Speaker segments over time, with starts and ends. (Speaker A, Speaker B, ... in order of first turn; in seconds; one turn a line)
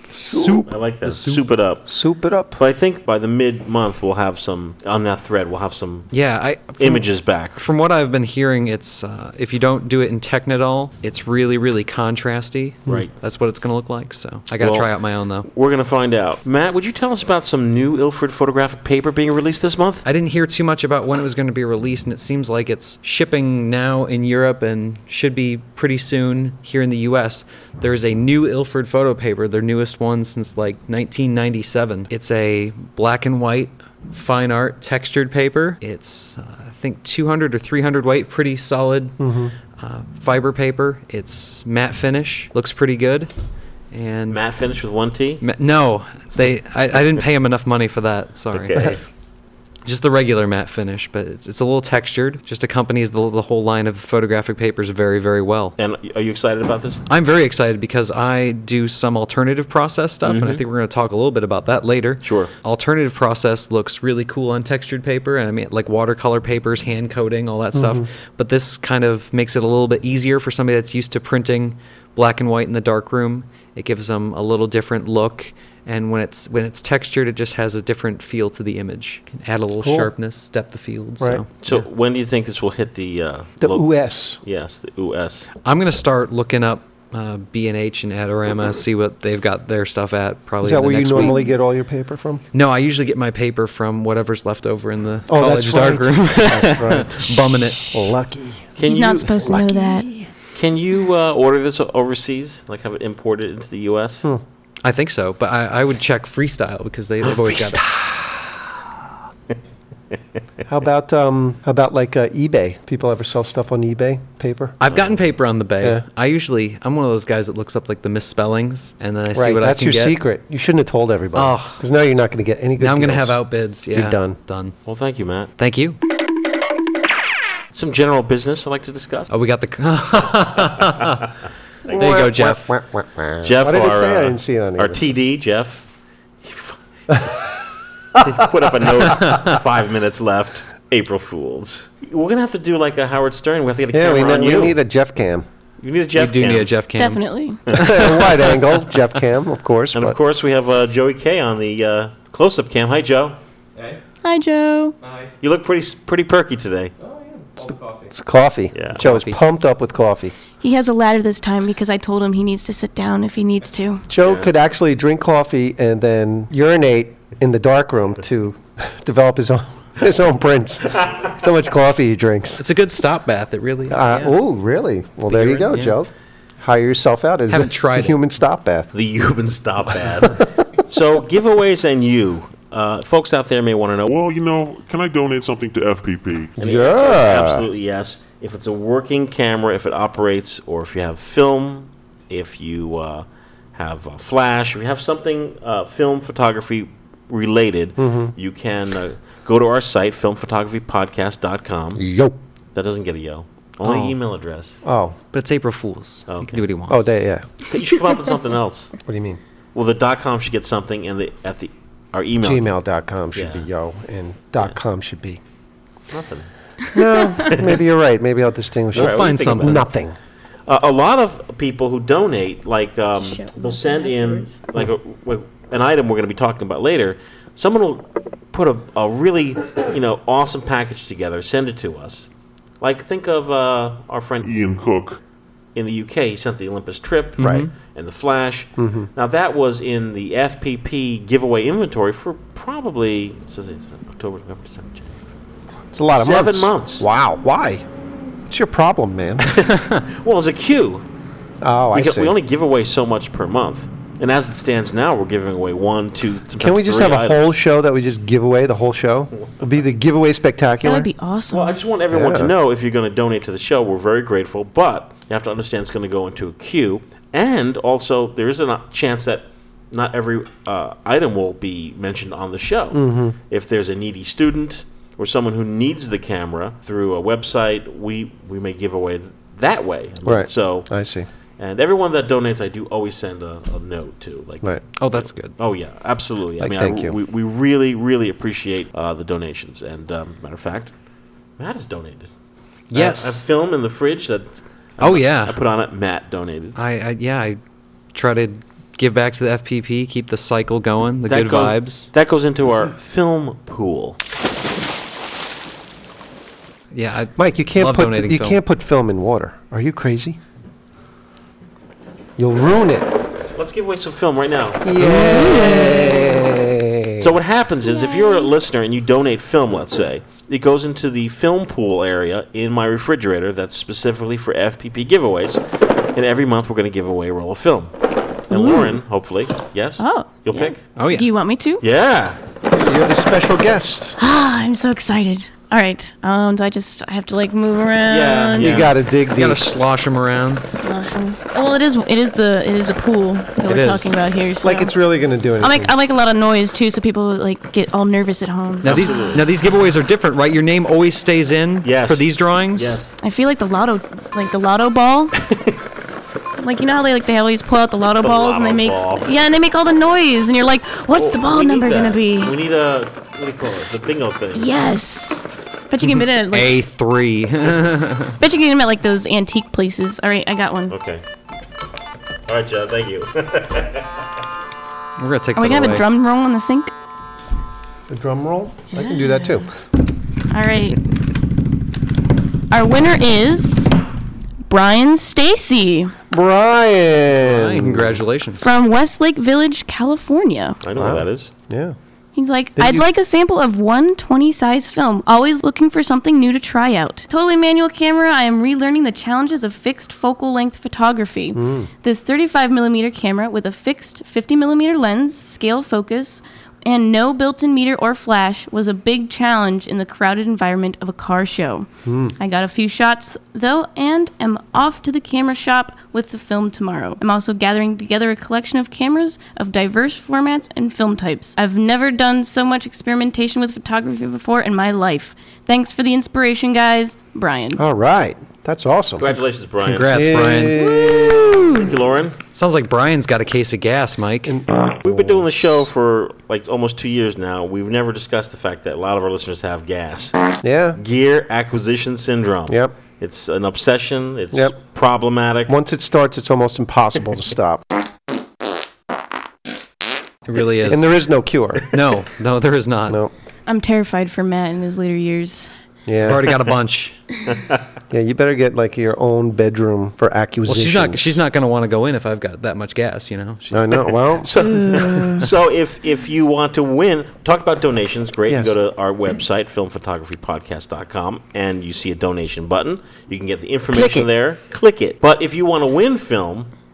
Speaker A: 0.1-0.7
Speaker B: 0.3-1.5
Speaker C: 0.6-1.9
Speaker A: 1.9-2.6
Speaker C: 2.6-6.1
Speaker B: 6.1-15.5
Speaker C: 6.8-7.6
Speaker C: 12.9-13.1
Speaker C: 14.6-14.9
Speaker C: 15.5-20.1
Speaker B: 20.1-39.2
Speaker A: 39.2-39.5
Speaker B: 39.8-43.3
Speaker B: 43.9-44.4
Speaker C: 44.3-45.4
Speaker B: 45.4-49.0
Speaker C: 48.5-49.0
Speaker B: 49.9-55.8
Speaker C: 55.8-57.0
Speaker B: 57.1-81.8
Speaker C: 60.2-60.6
Speaker C: 62.2-62.5
Speaker A: 67.7-68.1
Speaker A: 79.8-80.1
Speaker C: 81.6-83.9
Speaker A: 83.6-84.4
Speaker C: 84.4-85.5
Speaker B: 85.6-91.4
Speaker A: 90.6-92.4
Speaker D: 91.2-91.5
Speaker B: 92.5-98.0
Speaker A: 95.3-100.3
Speaker C: 98.8-99.6
Speaker D: 98.8-100.1
Speaker C: 100.5-104.3
Speaker B: 104.8-107.8
Speaker A: 107.2-108.8
Speaker A: 110.7-114.8
Speaker B: 114.8-120.2
Speaker C: 114.9-115.2
Speaker A: 119.3-123.4
Speaker B: 121.3-121.8
Speaker B: 122.8-124.8
Speaker A: 123.9-124.4
Speaker C: 124.9-125.5
Speaker B: 125.6-126.0
Speaker C: 127.7-129.3
Speaker B: 129.3-131.2
Speaker A: 131.9-135.0
Speaker C: 131.9-132.2
Speaker B: 131.9-132.7
Speaker C: 133.4-135.8
Speaker C: 136.4-137.3
Speaker C: 138.1-144.8
Speaker A: 143.9-145.5
Speaker C: 145.8-146.7
Speaker B: 146.2-148.5
Speaker D: 146.9-147.6
Speaker C: 147.7-148.6
Speaker A: 147.8-150.2
Speaker C: 149.9-153.4
Speaker D: 154.2-155.0
Speaker C: 155.4-156.9
Speaker A: 157.5-160.3
Speaker C: 158.7-159.0
Speaker B: 159.0-159.4
Speaker D: 160.6-164.0
Speaker A: 164.1-172.6
Speaker C: 164.2-164.5
Speaker C: 171.0-171.3
Speaker B: 172.6-174.3
Speaker A: 173.9-178.9
Speaker B: 175.3-176.0
Speaker B: 177.5-178.2
Speaker C: 178.9-184.1
Speaker E: 184.1-186.6
Speaker A: 186.6-187.7
Speaker C: 186.6-202.0
Speaker A: 198.0-198.3
Speaker A: 202.0-202.4
Speaker C: 202.7-204.8
Speaker B: 203.8-204.2
Speaker A: 204.8-205.2
Speaker B: 205.3-207.2
Speaker C: 206.3-206.6
Speaker A: 206.9-207.5
Speaker C: 207.6-208.9
Speaker A: 209.1-209.4
Speaker C: 209.7-212.7
Speaker A: 212.4-215.4
Speaker C: 213.3-213.7
Speaker C: 216.1-216.5
Speaker A: 216.9-220.2
Speaker C: 217.3-217.8
Speaker C: 218.9-219.9
Speaker B: 218.9-219.9
Speaker C: 220.7-232.3
Speaker D: 223.2-224.5
Speaker C: 232.8-234.4
Speaker E: 234.4-235.2
Speaker C: 235.8-245.2
Speaker B: 237.4-237.7
Speaker A: 237.4-237.7
Speaker A: 238.8-239.1
Speaker A: 245.9-247.8
Speaker C: 246.1-247.1
Speaker A: 248.5-249.6
Speaker C: 249.4-251.1
Speaker A: 251.6-252.4
Speaker C: 251.9-257.4
Speaker A: 256.6-261.1
Speaker C: 259.4-259.7
Speaker D: 260.8-261.8
Speaker C: 261.5-280.9
Speaker A: 262.1-262.5
Speaker A: 272.9-273.4
Speaker A: 280.2-281.3
Speaker C: 281.6-290.9
Speaker B: 285.0-285.6
Speaker A: 286.6-287.2
Speaker C: 291.6-292.3
Speaker B: 292.9-293.4
Speaker C: 292.9-296.8
Speaker B: 295.0-295.6
Speaker B: 296.8-297.6
Speaker B: 298.1-302.1
Speaker C: 301.3-304.2
Speaker B: 306.9-308.6
Speaker A: 307.4-310.4
Speaker A: 312.4-313.1
Speaker C: 313.6-316.3
Speaker A: 314.8-317.4
Speaker D: 315.8-316.0
Speaker C: 317.2-325.6
Speaker D: 317.8-318.5
Speaker C: 326.1-327.9
Speaker C: 328.5-330.8
Speaker D: 328.5-328.9
Speaker D: 330.0-331.8
Speaker B: 331.0-331.3
Speaker C: 331.8-332.4
Speaker A: 332.7-334.2
Speaker D: 334.2-338.8
Speaker C: 338.1-338.9
Speaker A: 338.6-339.6
Speaker B: 339.3-340.6
Speaker D: 340.6-344.9
Speaker B: 343.7-344.2
Speaker A: 344.6-345.9
Speaker D: 345.6-349.4
Speaker C: 348.8-349.5
Speaker B: 348.8-353.0
Speaker C: 351.8-353.1
Speaker D: 353.2-355.3
Speaker D: 356.6-362.6
Speaker C: 358.2-359.3
Speaker C: 361.1-364.7
Speaker D: 364.5-366.7
Speaker B: 366.5-368.4
Speaker D: 368.4-370.9
Speaker C: 370.9-371.2
Speaker C: 372.5-374.2
Speaker B: 375.2-376.1
Speaker D: 375.6-376.9
Speaker A: 378.1-379.7
Speaker D: 378.9-379.7
Speaker D: 380.5-381.0
Speaker D: 382.7-383.9
Speaker D: 384.7-386.1
Speaker A: 386.3-388.2
Speaker B: 387.4-388.6
Speaker D: 388.6-390.8
Speaker C: 390.8-391.5
Speaker A: 390.9-392.0
Speaker D: 392.4-427.8
Speaker A: 392.8-393.1
Speaker A: 401.5-401.9
Speaker A: 412.1-412.4
Speaker A: 427.8-429.3
Speaker C: 429.2-430.4
Speaker B: 429.8-430.8
Speaker A: 430.1-431.9
Speaker D: 431.0-431.8
Speaker C: 431.6-432.4
Speaker B: 432.5-434.6
Speaker A: 434.5-435.5
Speaker C: 435.0-440.4
Speaker A: 440.6-441.0
Speaker C: 441.0-445.7
Speaker A: 442.7-442.9
Speaker A: 445.7-447.9
Speaker B: 450.5-451.2
Speaker A: 450.9-451.9
Speaker B: 451.9-453.2
Speaker A: 453.1-453.3
Speaker D: 453.7-455.7
Speaker A: 456.1-456.5
Speaker B: 456.2-457.2
Speaker C: 457.5-457.8
Speaker A: 458.1-461.4
Speaker B: 460.7-464.1
Speaker A: 463.7-464.8
Speaker C: 464.4-476.7
Speaker D: 464.6-465.4
Speaker A: 468.5-468.8
Speaker A: 473.9-474.3